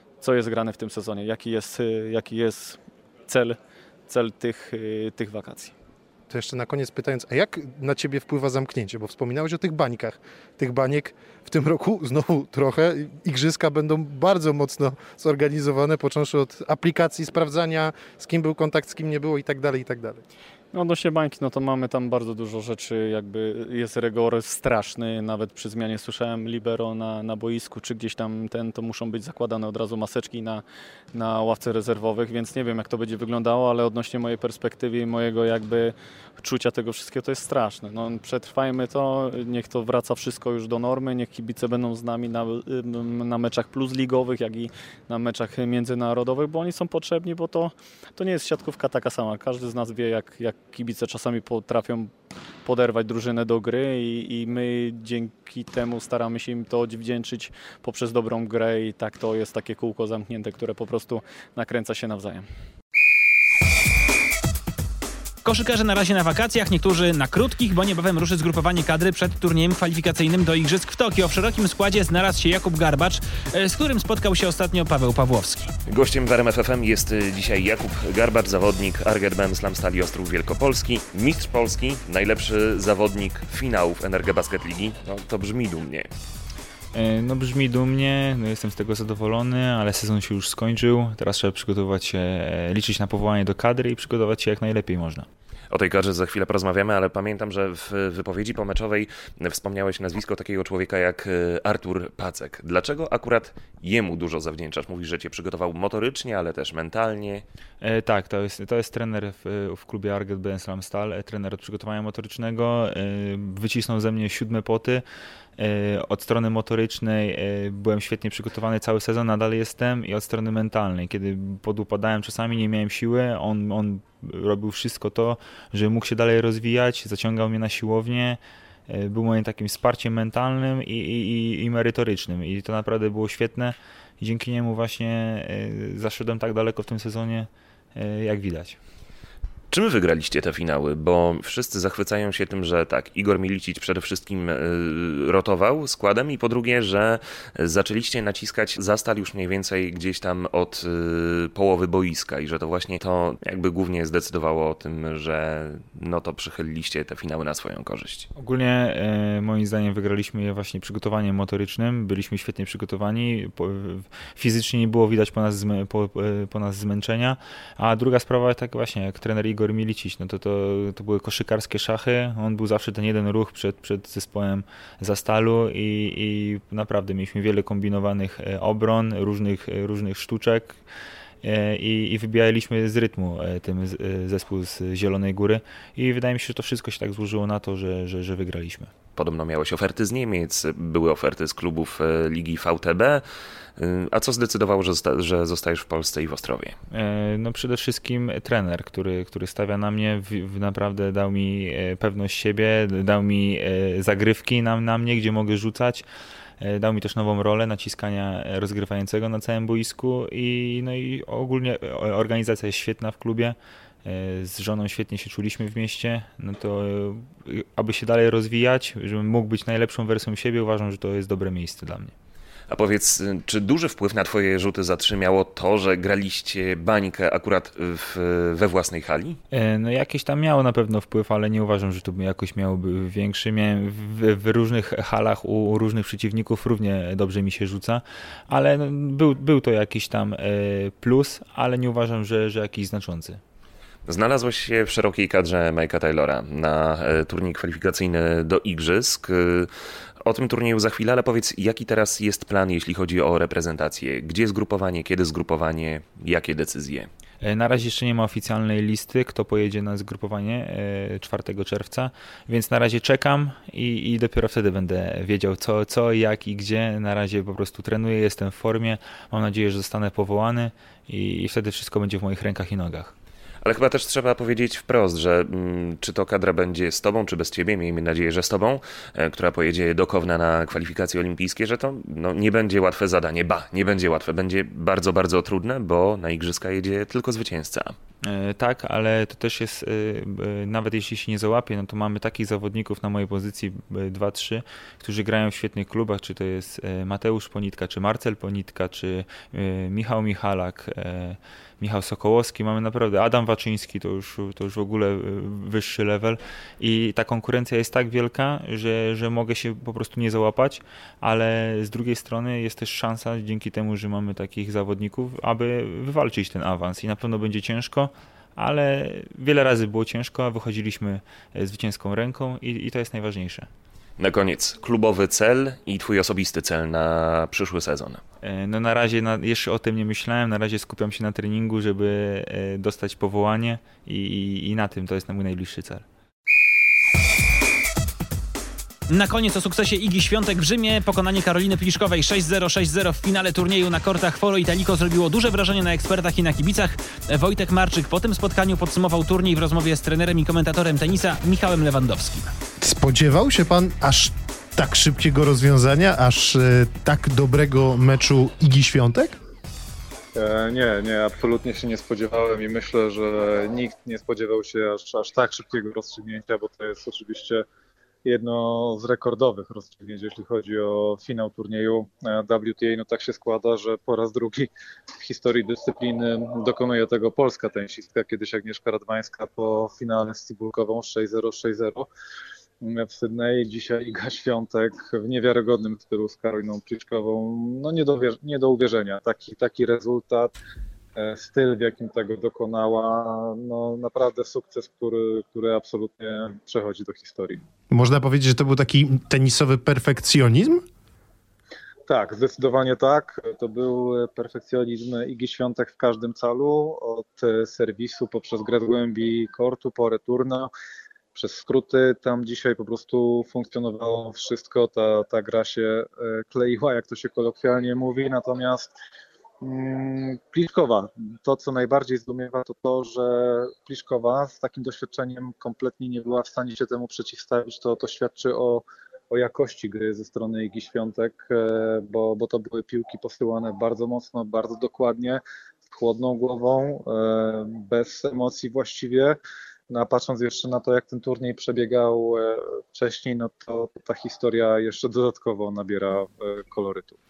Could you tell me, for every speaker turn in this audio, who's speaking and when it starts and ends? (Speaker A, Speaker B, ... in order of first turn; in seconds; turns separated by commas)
Speaker A: 0.2-5.7, Speaker B: 6.3-20.2, Speaker A: 20.7-30.6, Speaker A: 31.1-52.1, Speaker A: 52.6-62.5, Speaker C: 65.4-75.7, Speaker D: 75.9-86.1, Speaker E: 86.9-95.3, Speaker D: 95.7-107.4, Speaker E: 107.8-115.0, Speaker E: 115.6-138.8, Speaker D: 139.7-158.3, Speaker E: 158.3-180.8, Speaker E: 181.4-188.9, Speaker D: 189.2-193.2, Speaker D: 193.8-196.8, Speaker E: 196.9-206.1, Speaker E: 206.6-222.1, Speaker D: 222.7-229.4, Speaker E: 229.5-243.4, Speaker D: 244.1-249.7, Speaker D: 250.2-257.1, Speaker E: 257.4-273.1, Speaker D: 273.6-288.0, Speaker E: 288.2-323.7, Speaker D: 324.2-328.2, Speaker E: 328.4-336.1, Speaker C: 339.1-352.5, Speaker B: 352.8-359.4, Speaker F: 360.3-367.6, Speaker F: 368.2-382.1, Speaker F: 382.8-390.5, Speaker F: 391.1-397.6, Speaker B: 397.9-400.8, Speaker F: 402.1-410.7, Speaker F: 411.3-418.9, Speaker F: 419.6-439.4, Speaker F: 439.9-447.2